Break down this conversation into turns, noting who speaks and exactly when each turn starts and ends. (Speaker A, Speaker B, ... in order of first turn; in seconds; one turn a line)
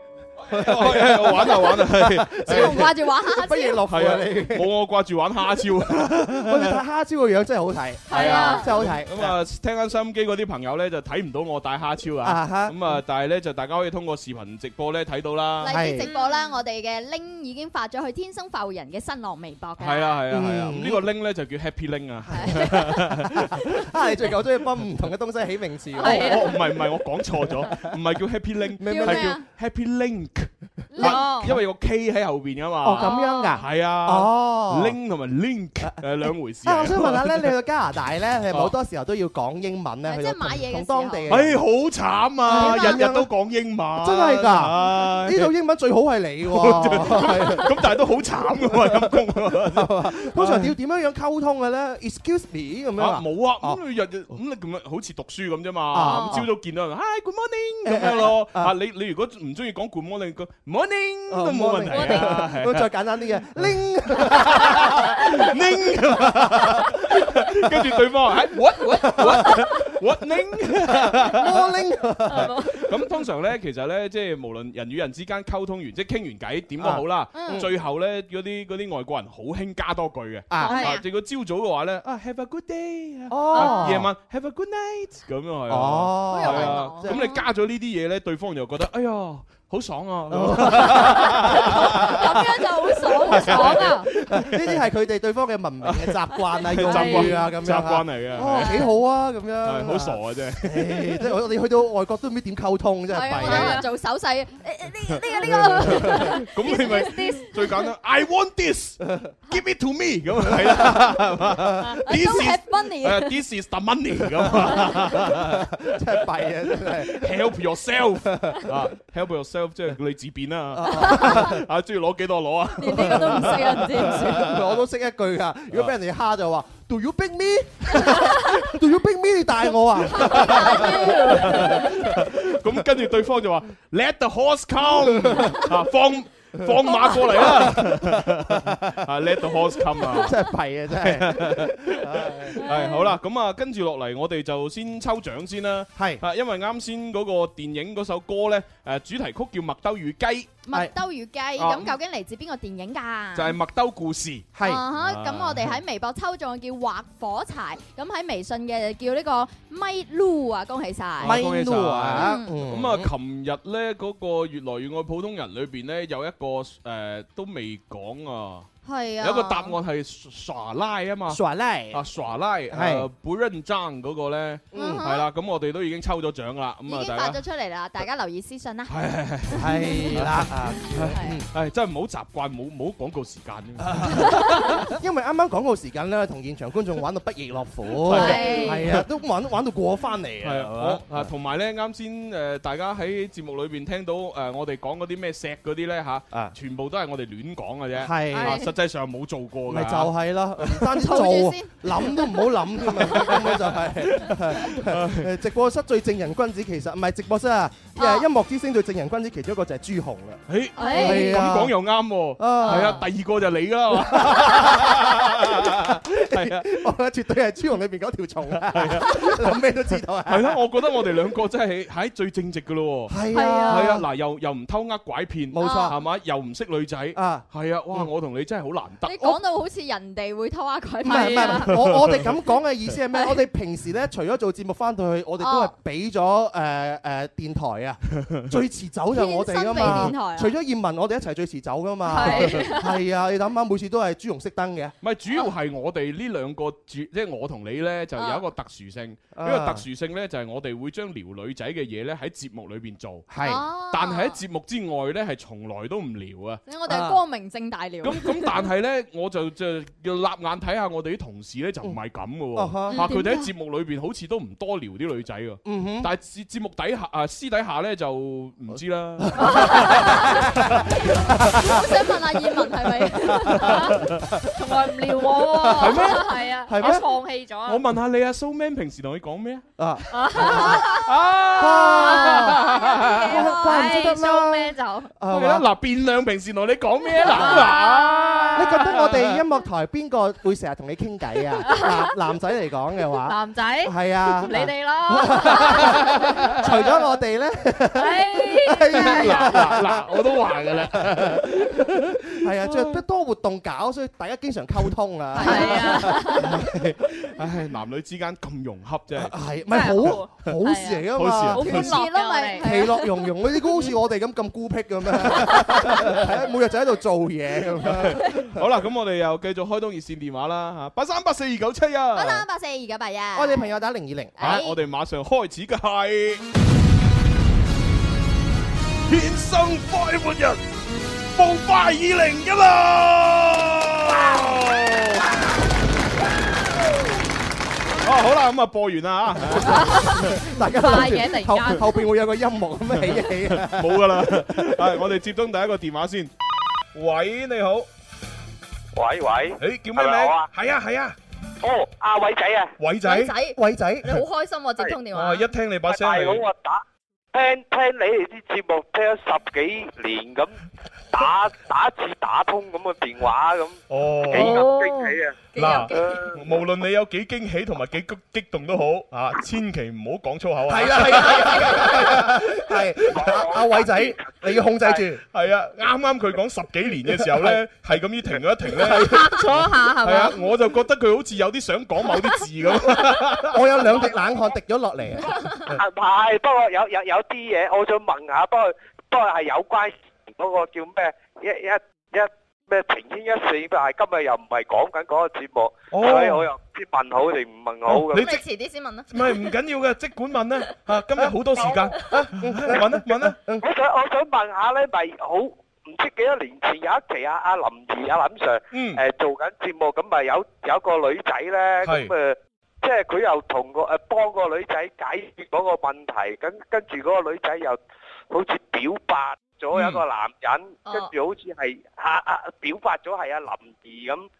Speaker A: 0.5-4.7
Speaker B: 0.5-2.9
Speaker C: 2.5-3.8
Speaker B: 3.9-6.8
Speaker A: 6.3-9.3
Speaker D: 8.1-8.6
Speaker B: 8.1-15.8
Speaker C: 8.1-8.6
Speaker A: 12.2-13.0
Speaker C: 15.6-20.2
Speaker A: 15.7-16.1
Speaker D: 16.0-16.5
Speaker B: 19.8-23.8
Speaker A: 20.3-21.0
Speaker A: 22.3-26.3
Speaker C: 22.4-22.8
Speaker D: 26.0-26.4
Speaker B: 26.0-37.5
Speaker A: 28.8-29.4
Speaker C: 28.8-29.4
Speaker C: 30.9-31.3
Speaker D: 31.0-31.5
Speaker A: 32.8-35.0
Speaker C: 33.0-33.5
Speaker A: 36.6-41.6
Speaker C: 40.0-41.3
Speaker B: 41.3-45.5
Speaker A: 42.5-43.3
Speaker C: 42.5-43.0
Speaker A: 44.0-47.7
Speaker B: 46.5-50.7
Speaker A: 48.5-53.8
Speaker B: 53.0-62.9
Speaker A: 55.9-56.5
Speaker D: 56.0-56.4
Speaker A: 57.8-58.7
Speaker A: 61.3-65.3
Speaker D: 61.9-62.3
Speaker B: 64.3-71.7
Speaker A: 65.9-66.8
Speaker A: 69.0-69.6
Speaker A: 70.8-72.6
Speaker D: 72.3-72.7
Speaker B: 72.8-94.8
Speaker A: 76.8-77.7
Speaker C: 77.3-77.6
Speaker A: 80.5-80.9
Speaker D: 80.6-81.0
Speaker C: 80.7-81.0
Speaker A: 83.3-84.1
Speaker A: 85.7-87.2
Speaker C: 86.3-87.4
Speaker A: 90.3-92.3
Speaker C: 92.2-93.9
Speaker A: 93.3-93.7
Speaker D: 93.3-94.0
Speaker A: 94.3-103.8
Speaker B: 95.8-98.7
Speaker D: 96.8-97.3
Speaker B: 99.6-101.2
Speaker C: 103.1-107.2
Speaker D: 103.4-103.8
Speaker A: 105.5-106.0
Speaker B: 106.0-115.7
Speaker D: 106.7-107.5
Speaker A: 109.0-109.3
Speaker A: 110.4-111.9
Speaker C: 112.0-113.3
Speaker A: 114.4-117.3
Speaker B: 116.7-124.6
Speaker A: 118.2-118.8
Speaker A: 120.7-121.6
Speaker C: 120.9-121.4
Speaker C: 122.8-124.5
Speaker A: 122.9-132.2
Speaker C: 130.2-131.8
Speaker B: 130.2-130.5
Speaker B: 131.4-140.4
Speaker A: 135.0-135.7
Speaker A: 136.6-139.1
Speaker A: 140.1-142.8
Speaker B: 140.9-150.6
Speaker A: 145.9-146.2
Speaker C: 150.7-153.6
Speaker B: 151.6-151.9
Speaker B: 153.3-155.8
Speaker A: 154.5-154.8
Speaker C: 154.6-161.4
Speaker B: 161.2-168.7
Speaker A: 161.2-163.1
Speaker C: 162.2-162.5
Speaker C: 168.8-169.8
Speaker B: 169.2-177.4
Speaker A: 171.3-172.0
Speaker A: 172.7-173.1
Speaker A: 174.7-175.1
Speaker C: 174.7-175.2
Speaker C: 176.9-178.9
Speaker B: 178.9-184.5
Speaker A: 179.5-181.4
Speaker C: 179.8-180.1
Speaker A: 183.8-184.3
Speaker A: 184.9-191.3
Speaker B: 188.1-189.0
Speaker C: 188.1-188.8
Speaker D: 188.2-188.7
Speaker B: 190.4-200.1
Speaker A: 197.9-198.6
Speaker D: 198.3-198.7
Speaker A: 199.7-210.4
Speaker C: 201.0-202.2
Speaker B: 203.0-205.3
Speaker C: 207.9-208.2
Speaker B: 210.5-216.8
Speaker C: 210.8-211.4
Speaker A: 211.0-211.8
Speaker A: 212.4-213.0
Speaker C: 212.6-212.9
Speaker A: 213.9-220.6
Speaker B: 218.6-219.6
Speaker B: 220.3-229.4
Speaker A: 223.1-224.0
Speaker D: 223.3-223.9
Speaker A: 225.5-226.0
Speaker C: 225.6-225.9
Speaker A: 227.1-228.1
Speaker C: 229.0-231.6
Speaker A: 231.0-244.9
Speaker D: 231.1-231.6
Speaker B: 231.7-232.3
Speaker C: 235.4-235.7
Speaker B: 238.2-238.5
Speaker C: 239.1-240.5
Speaker B: 239.8-240.1
Speaker D: 242.1-242.9
Speaker B: 245.0-253.3
Speaker C: 248.2-248.4
Speaker A: 249.3-249.8
Speaker A: 253.3-253.6
Speaker C: 253.4-254.4
Speaker B: 253.9-256.6
Speaker C: 256.6-258.3
Speaker A: 256.9-257.2
Speaker B: 258.0-270.5
Speaker A: 262.5-263.0
Speaker C: 262.9-263.5
Speaker A: 265.6-266.1
Speaker A: 268.7-271.9
Speaker D: 269.4-269.7
Speaker C: 271.5-273.7
Speaker A: 273.2-274.3
Speaker D: 274.6-277.8
Speaker A: 275.5-277.0
Speaker B: 275.7-276.3
Speaker B: 277.6-279.6
Speaker A: 279.8-280.8
Speaker D: 280.1-281.0
Speaker B: 280.3-283.4
Speaker A: 281.6-282.6
Speaker D: 281.9-285.1
Speaker A: 283.2-285.6
Speaker B: 285.3-289.4
Speaker D: 287.2-288.4
Speaker A: 287.4-287.6
Speaker A: 288.5-296.0
Speaker D: 291.6-292.1
Speaker D: 293.2-295.9
Speaker A: 296.6-300.0
Speaker D: 298.0-299.5
Speaker B: 299.0-303.0
Speaker A: 300.7-306.9
Speaker D: 305.4-306.4
Speaker C: 305.4-306.1
Speaker B: 306.4-309.3
Speaker A: 309.2-311.9
Speaker D: 309.7-312.7
Speaker B: 311.1-311.9
Speaker C: 311.6-313.1
Speaker A: 312.6-318.6
Speaker B: 317.8-322.4
Speaker C: 322.1-323.7
Speaker A: 323.3-324.6
Speaker C: 324.4-324.7
Speaker B: 324.4-326.4
Speaker B: 329.1-330.6
Speaker B: 331.3-335.3
Speaker B: 338.0-340.4
Speaker D: 339.7-340.1
Speaker A: 340.3-344.1
Speaker D: 340.6-341.9
Speaker B: 343.0-346.3
Speaker B: 346.9-347.9
Speaker E: 348.9-350.5
Speaker B: 349.6-351.1
Speaker E: 351.6-352.7
Speaker B: 352.8-353.3
Speaker C: 353.0-355.5
Speaker A: 353.5-354.2
Speaker B: 355.1-356.4
Speaker E: 355.9-356.8
Speaker E: 357.3-360.5
Speaker E: 361.1-365.4
Speaker B: 363.9-364.7
Speaker C: 364.4-365.9
Speaker B: 365.5-373.4
Speaker E: 365.9-366.4
Speaker A: 370.7-375.2
Speaker E: 373.2-375.0
Speaker B: 375.3-384.1
Speaker A: 377.1-377.6
Speaker A: 378.8-379.3
Speaker D: 379.4-380.2
Speaker C: 379.7-380.4
Speaker A: 383.5-385.8
Speaker E: 385.7-398.4
Speaker B: 395.9-396.5
Speaker B: 397.9-398.4
Speaker C: 398.1-399.1
Speaker B: 399.1-403.4
Speaker E: 401.6-401.8
Speaker A: 402.3-403.6
Speaker E: 403.6-417.8
Speaker B: 408.7-409.0
Speaker B: 411.8-412.1
Speaker E: 418.3-424.3
Speaker B: 419.7-420.0